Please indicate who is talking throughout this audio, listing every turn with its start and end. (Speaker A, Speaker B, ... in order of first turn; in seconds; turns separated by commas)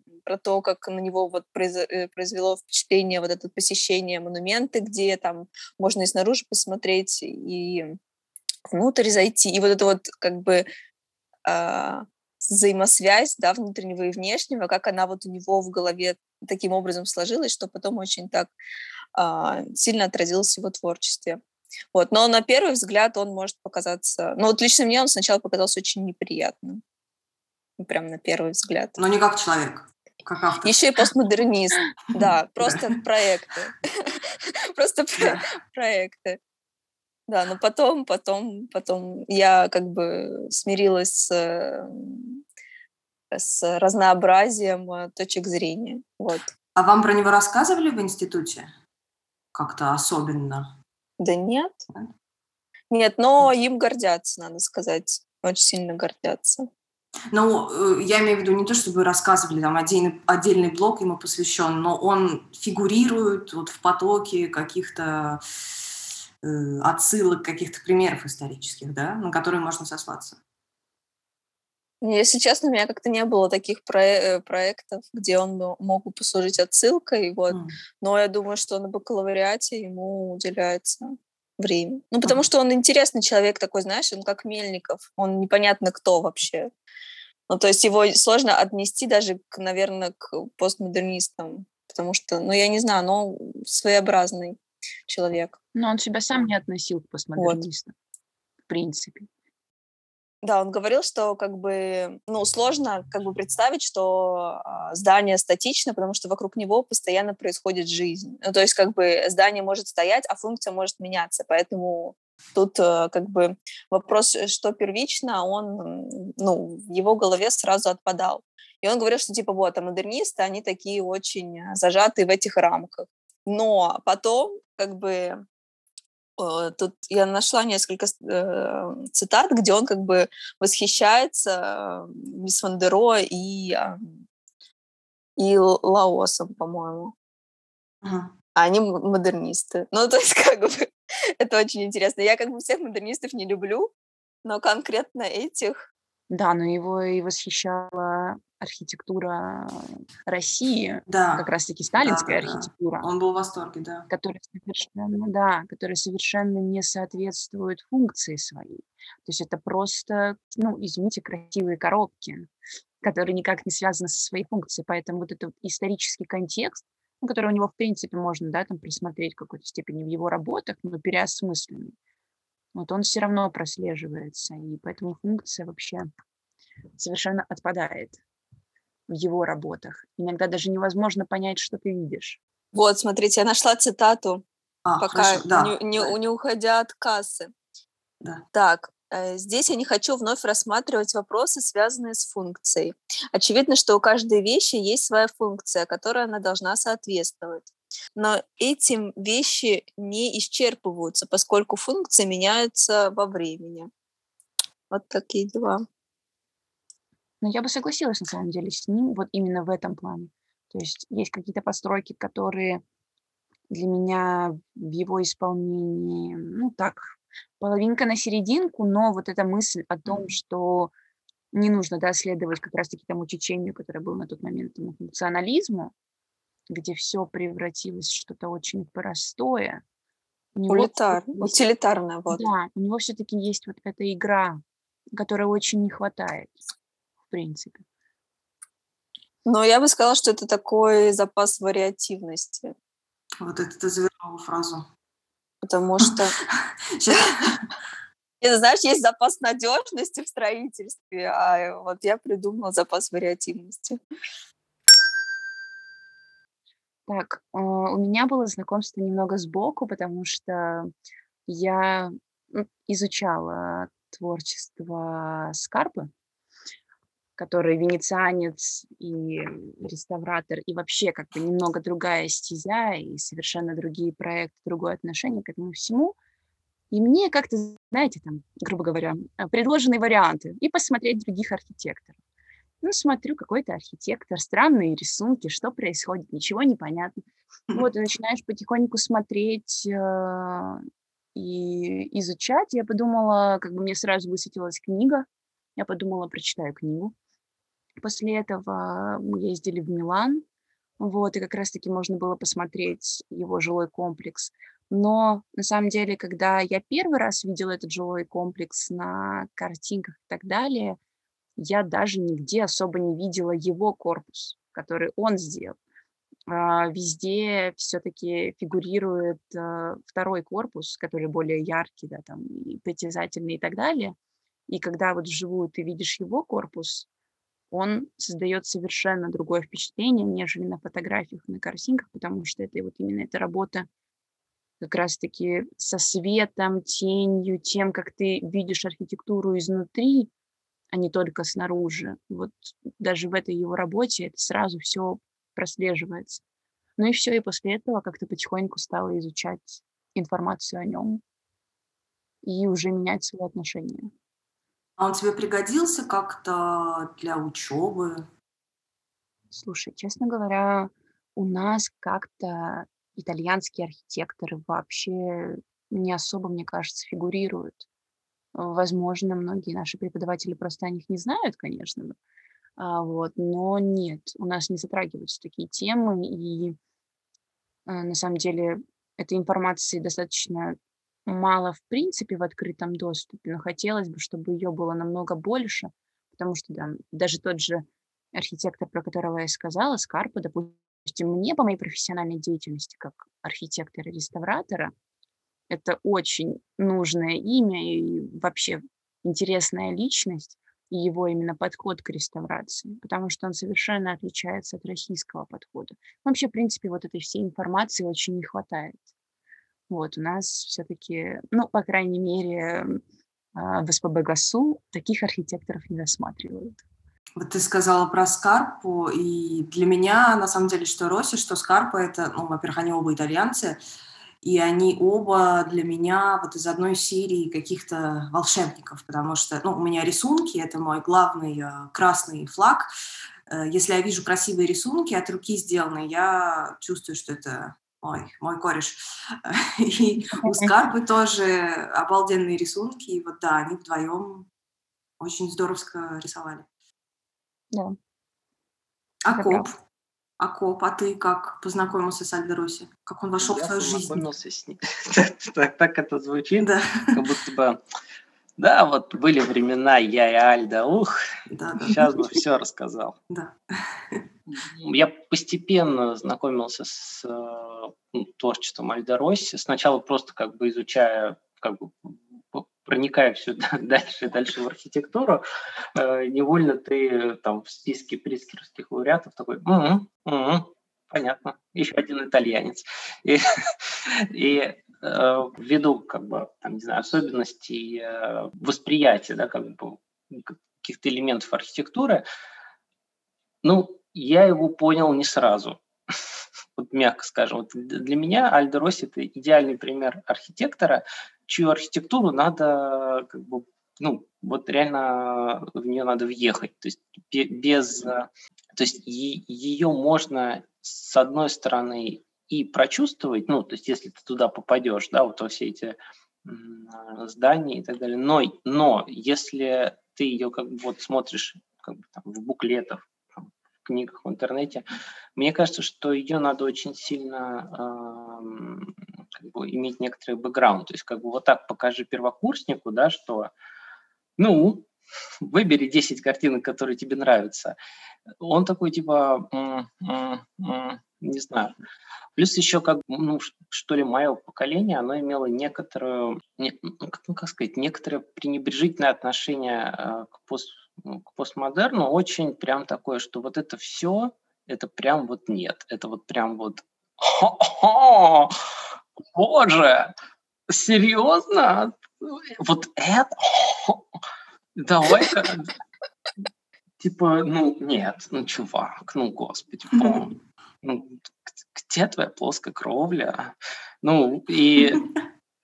Speaker A: 0.3-8.0, Speaker A: 8.7-10.7, Speaker A: 11.5-18.5, Speaker A: 19.2-21.4, Speaker A: 21.9-26.8, Speaker A: 27.8-29.0, Speaker B: 29.0-30.8, Speaker A: 30.6-36.4, Speaker B: 32.1-33.0, Speaker A: 37.3-42.4, Speaker A: 43.3-46.5, Speaker B: 46.8-48.7, Speaker B: 49.5-50.7, Speaker A: 51.2-51.8, Speaker A: 52.9-56.7, Speaker B: 57.3-65.4, Speaker B: 66.4-70.4, Speaker A: 72.0-86.7, Speaker B: 77.5-77.8, Speaker A: 87.5-95.6, Speaker C: 95.7-97.9, Speaker A: 97.4-97.6, Speaker C: 98.7-99.3, Speaker A: 100.4-125.4, Speaker A: 126.4-134.2, Speaker A: 135.4-137.1, Speaker B: 138.0-138.3, Speaker A: 138.6-143.9, Speaker A: 144.4-145.8, Speaker C: 146.3-153.1, Speaker B: 151.1-151.5, Speaker B: 152.0-154.1, Speaker C: 154.1-162.5, Speaker C: 163.0-171.9, Speaker C: 172.7-176.1, Speaker C: 177.0-178.2, Speaker C: 179.1-182.4, Speaker A: 182.7-184.4, Speaker B: 184.8-186.1, Speaker A: 185.0-187.5, Speaker A: 188.5-203.9, Speaker A: 204.9-205.8, Speaker C: 207.4-212.8, Speaker C: 213.7-220.9, Speaker C: 221.5-225.9, Speaker C: 226.7-229.8, Speaker C: 230.6-231.6, Speaker A: 230.7-232.4, Speaker C: 232.3-234.6, Speaker C: 235.1-236.6, Speaker C: 237.3-237.8, Speaker A: 239.5-242.7, Speaker B: 243.4-244.9, Speaker A: 245.6-246.3, Speaker B: 246.0-247.6, Speaker A: 248.4-254.0, Speaker C: 257.1-260.9, Speaker C: 261.5-266.1, Speaker C: 267.4-276.1, Speaker C: 276.9-282.1, Speaker C: 282.8-287.2, Speaker C: 287.7-290.8, Speaker C: 291.4-297.1, Speaker C: 298.0-300.4, Speaker C: 301.0-311.0, Speaker C: 311.6-315.8, Speaker C: 316.5-324.1, Speaker C: 324.7-327.1, Speaker C: 327.7-333.9, Speaker C: 334.8-340.3, Speaker C: 340.9-346.4, Speaker C: 347.0-351.2, Speaker C: 352.4-354.1, Speaker B: 355.0-358.3, Speaker C: 359.5-367.9, Speaker C: 368.6-372.2, Speaker C: 372.8-376.8, Speaker C: 377.9-394.9, Speaker C: 395.7-409.0, Speaker C: 409.9-413.0, Speaker C: 413.6-416.8, Speaker B: 417.4-423.8, Speaker B: 424.4-432.9, Speaker B: 433.5-444.5, Speaker C: 440.3-440.7, Speaker B: 445.2-446.7, Speaker B: 449.2-449.8, Speaker C: 449.4-449.7, Speaker B: 450.4-454.2, Speaker D: 453.4-457.8, Speaker B: 456.6-457.2, Speaker D: 458.6-461.2, Speaker B: 461.5-462.3, Speaker D: 461.8-463.2, Speaker B: 463.3-464.3, Speaker D: 464.5-475.4, Speaker D: 476.0-492.2, Speaker D: 493.6-495.8, Speaker D: 496.8-524.9, Speaker D: 525.4-533.5, Speaker D: 534.4-534.9, Speaker D: 535.4-537.8, Speaker D: 538.4-541.7, Speaker D: 542.4-558.6, Speaker D: 559.2-560.1, Speaker D: 560.7-564.0, Speaker D: 564.8-565.7, Speaker D: 567.0-571.1, Speaker B: 570.0-570.2, Speaker D: 571.8-575.1